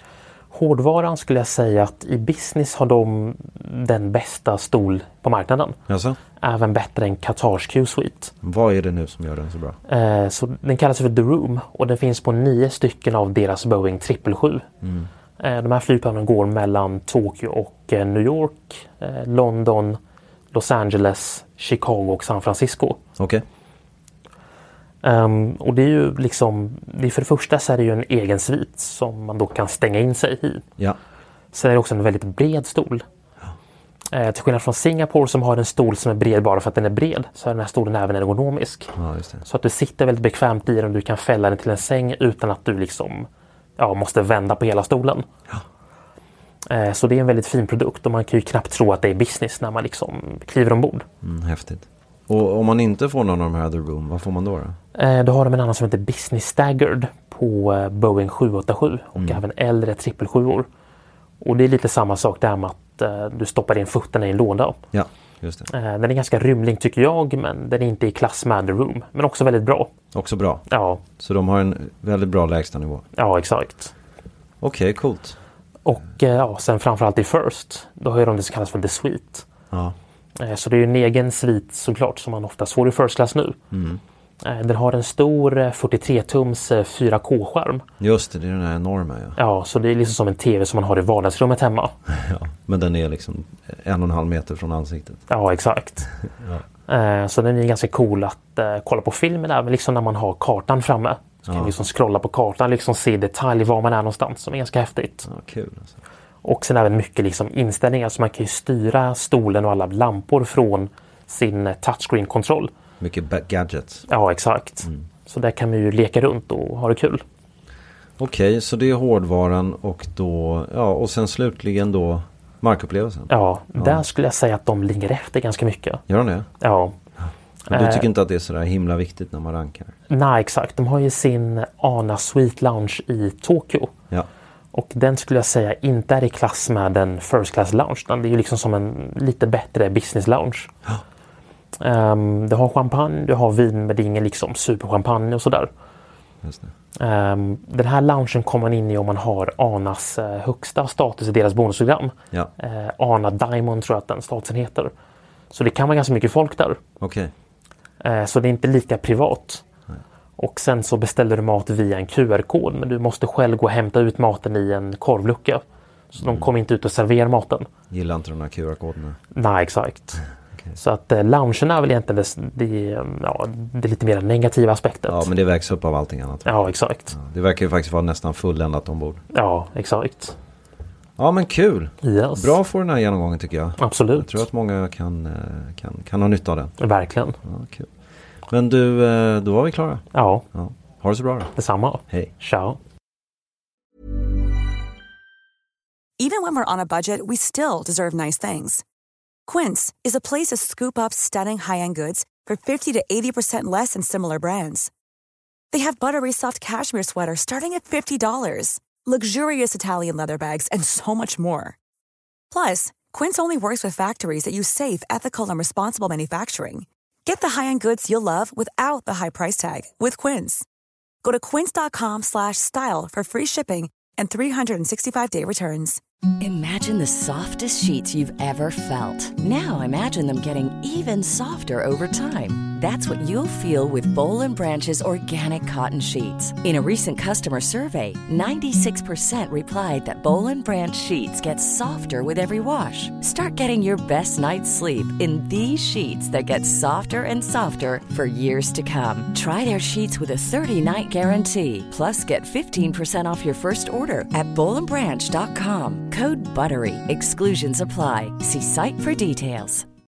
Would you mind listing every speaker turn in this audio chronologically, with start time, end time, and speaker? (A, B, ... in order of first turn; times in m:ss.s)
0:00.5-0:05.8 A
0:05.9-0:06.2 B
0:06.4-0:08.3 A
0:08.4-0:09.8 B
0:09.9-0:14.7 A
0:14.8-0:15.1 B
0:15.4-0:20.0 A
0:20.5-0:23.0 A
0:23.2-0:23.4 B
0:25.0-0:30.6 A
0:31.5-0:33.0 A
0:34.1-0:38.9 A
0:38.9-0:39.4 B
0:39.4-0:45.2 A
0:46.7-0:51.1 A
0:51.2-0:54.8 B
0:55.0-1:00.7 A
1:01.4-1:04.8 A
1:04.9-1:05.7 B
1:05.7-1:09.9 A
1:10.1-1:10.7 B
1:10.7-1:11.0 A
1:11.2-1:13.0 B
1:13.2-1:13.9 A
1:14.6-1:15.4 B
1:15.8-1:19.5 A
1:19.7-1:20.0 B
1:20.4-1:23.6 A
1:23.7-1:24.0 B
1:24.4-1:27.8 A
1:28.0-1:29.4 B
1:29.4-1:31.9 A
1:32.1-1:35.2 B
1:35.3-1:36.1 A
1:36.4-1:36.6 B
1:36.9-1:45.3 A
1:41.5-1:41.8 B
1:45.2-1:46.0 B
1:46.4-1:52.7 A
1:53.0-1:54.1 B
1:54.1-1:57.2 A
1:58.2-2:04.0 B
2:03.3-2:06.0 A
2:06.1-2:06.5 B
2:06.6-2:07.0 A
2:07.2-2:09.9 B
2:07.7-2:08.1 A
2:10.1-2:13.9 A
2:14.7-2:20.7 A
2:21.8-2:25.7 A
2:26.4-2:26.7 B
2:27.0-2:34.9 A
2:35.5-2:36.8 A
2:37.0-2:37.3 B
2:38.0-2:39.6 A
2:40.4-2:45.6 A
2:46.1-2:47.7 A
2:46.2-2:46.5 B
2:47.9-2:49.2 B
2:49.3-2:50.2 A
2:50.7-2:55.3 A
2:55.1-2:59.2 B
2:56.5-2:57.2 A
2:59.3-3:00.4 A
3:01.2-3:06.8 B
3:02.0-3:02.6 A
3:03.8-3:04.5 A
3:06.8-3:07.4 A
3:07.4-3:07.9 B
3:08.5-3:11.5 B
3:10.1-3:10.4 A
3:11.6-3:12.8 A
3:16.2-3:18.8 C
3:19.5-3:24.9 C
3:25.7-3:31.8 C
3:32.5-3:40.7 C
3:41.2-3:46.0 C
3:46.4-4:19.8 D